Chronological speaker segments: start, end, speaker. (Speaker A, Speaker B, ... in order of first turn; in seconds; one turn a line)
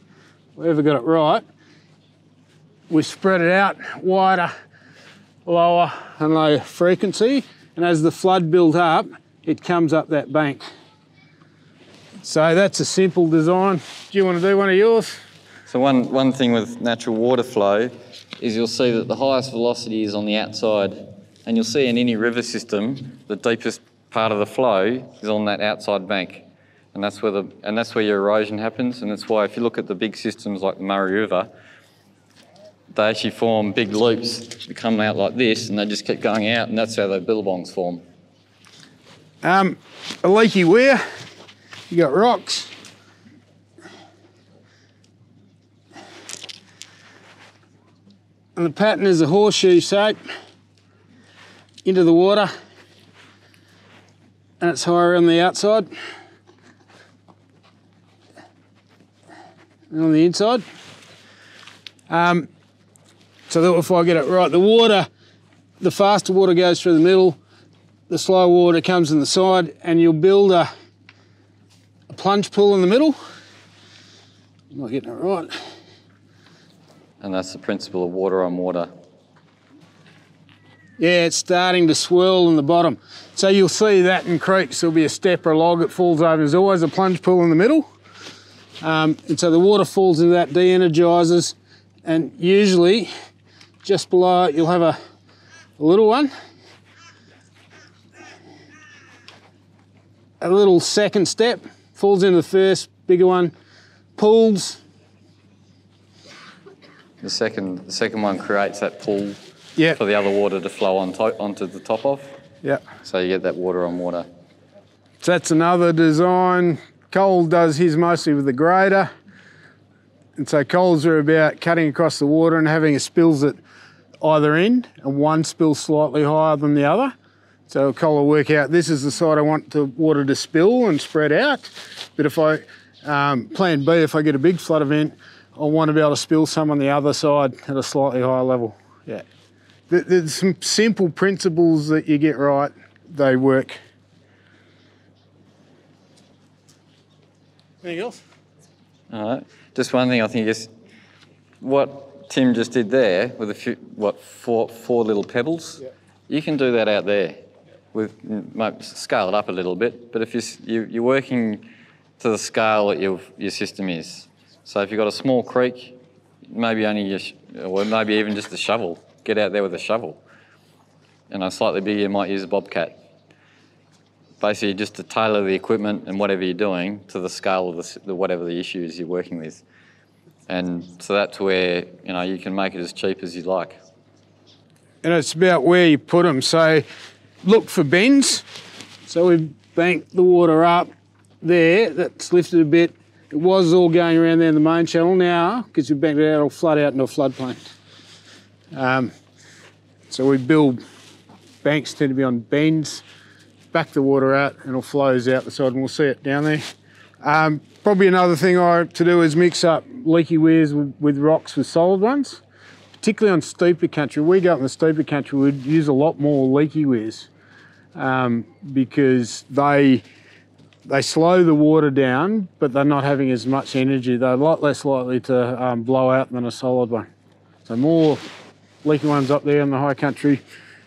Speaker A: 0.6-1.4
Speaker A: 2.9-4.5
Speaker A: 5.5-10.6
Speaker A: 12.2-15.2
Speaker B: 15.7-31.5
Speaker B: 32.9-38.0
Speaker A: 39.4-41.0
Speaker A: 41.9-42.7
Speaker A: 48.6-50.2
Speaker A: 51.9-52.5
Speaker A: 54.6-55.9
Speaker A: 59.9-60.6
Speaker A: 62.1-62.5
Speaker A: 63.5-65.1
Speaker A: 65.8-67.4
Speaker A: 68.1-70.7
Speaker A: 72.1-73.2
Speaker A: 74.7-75.5
Speaker B: 77.2-78.9
Speaker A: 81.0-87.9
Speaker A: 88.8-93.1
Speaker A: 93.8-95.0
Speaker A: 95.8-96.3
Speaker A: 100.4-103.5
Speaker A: 104.2-104.8
Speaker B: 107.2-109.4
Speaker B: 110.0-112.3
Speaker B: 113.0-114.3
Speaker A: 115.2-119.1
Speaker A: 120.4-123.6
Speaker A: 124.2-127.1
Speaker A: 127.7-139.2
Speaker A: 139.9-143.8
Speaker A: 147.8-148.2
Speaker B: 149.1-150.7
Speaker B: 151.6-157.4
Speaker B: 157.9-161.7
Speaker B: 162.2-165.9
Speaker B: 166.5-170.2
Speaker B: 171.3-172.9
Speaker B: 174.4-179.6
Speaker B: 180.5-183.8
Speaker A: 185.0-186.8
Speaker A: 187.4-188.4
Speaker A: 189.1-190.9
Speaker A: 191.4-197.6
Speaker A: 198.7-199.1
Speaker A: 200.1-200.8
Speaker A: 201.6-203.0
Speaker A: 203.7-206.6
Speaker A: 207.2-212.4
Speaker A: 213.0-217.3
Speaker A: 217.9-220.0
Speaker A: 220.9-227.1
Speaker A: 227.7-228.2
Speaker A: 228.8-230.4